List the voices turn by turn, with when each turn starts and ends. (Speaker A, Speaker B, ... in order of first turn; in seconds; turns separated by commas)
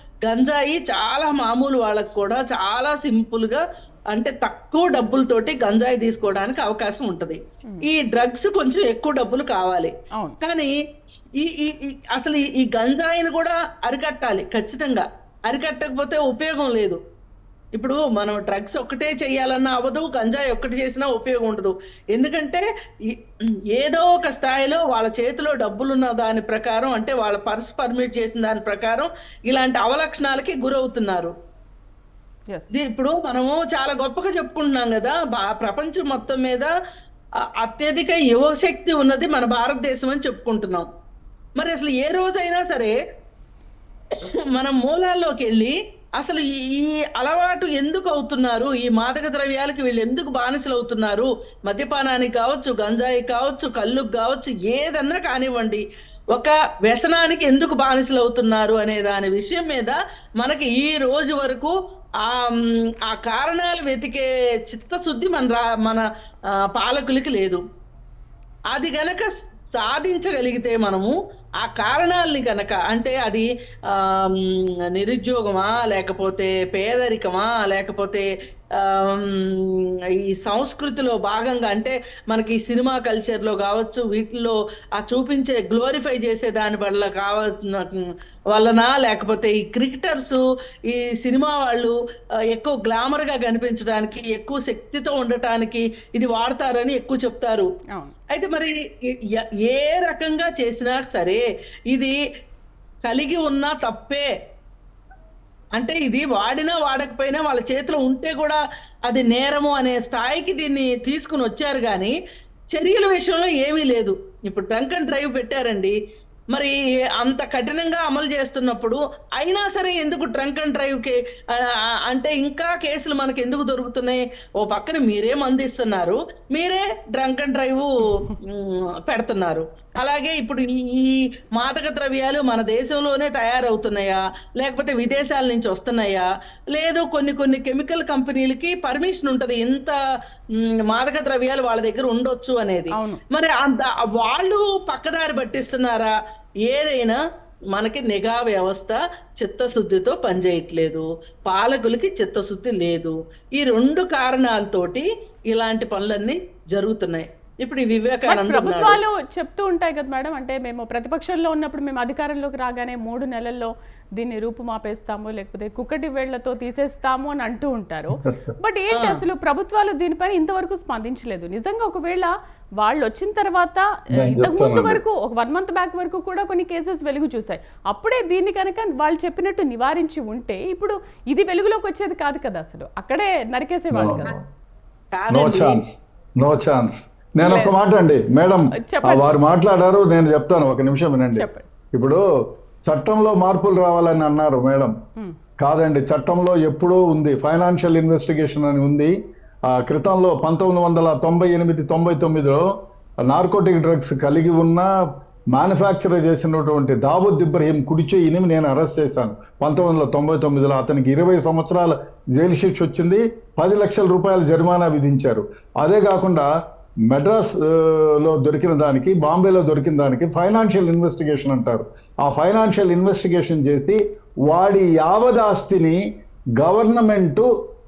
Speaker A: 0.3-3.6, Speaker A: 4.1-10.7, Speaker A: 11.4-17.0, Speaker A: 17.8-23.2, Speaker A: 23.7-31.3, Speaker A: 32.7-36.7, Speaker A: 37.6-40.9, Speaker A: 41.6-42.9, Speaker A: 44.2-55.8, Speaker A: 56.3-62.5, Speaker A: 63.1-66.0, Speaker A: 66.7-67.6, Speaker A: 68.7-71.1, Speaker A: 71.6-78.3, Speaker A: 78.8-79.8, Speaker A: 80.3-91.9, Speaker A: 92.5-97.7, Speaker A: 98.3-98.7, Speaker A: 99.7-101.4, Speaker A: 103.1-104.3, Speaker A: 105.8-112.1, Speaker A: 112.7-115.9, Speaker A: 116.5-139.9, Speaker A: 140.6-146.1, Speaker B: 142.9-143.2, Speaker A: 146.7-147.2, Speaker A: 147.7-159.0, Speaker B: 158.3-184.3, Speaker C: 168.2-168.5, Speaker A: 168.9-169.2, Speaker C: 174.1-175.0, Speaker C: 183.9-184.4, Speaker A: 185.1-185.8, Speaker C: 185.3-192.2, Speaker B: 187.4-187.8, Speaker B: 188.8-189.3, Speaker B: 191.3-191.7, Speaker C: 192.9-194.9, Speaker C: 195.6-199.1, Speaker C: 199.7-202.6, Speaker C: 203.3-204.9, Speaker C: 205.5-216.5, Speaker C: 217.1-226.0, Speaker C: 226.6-227.5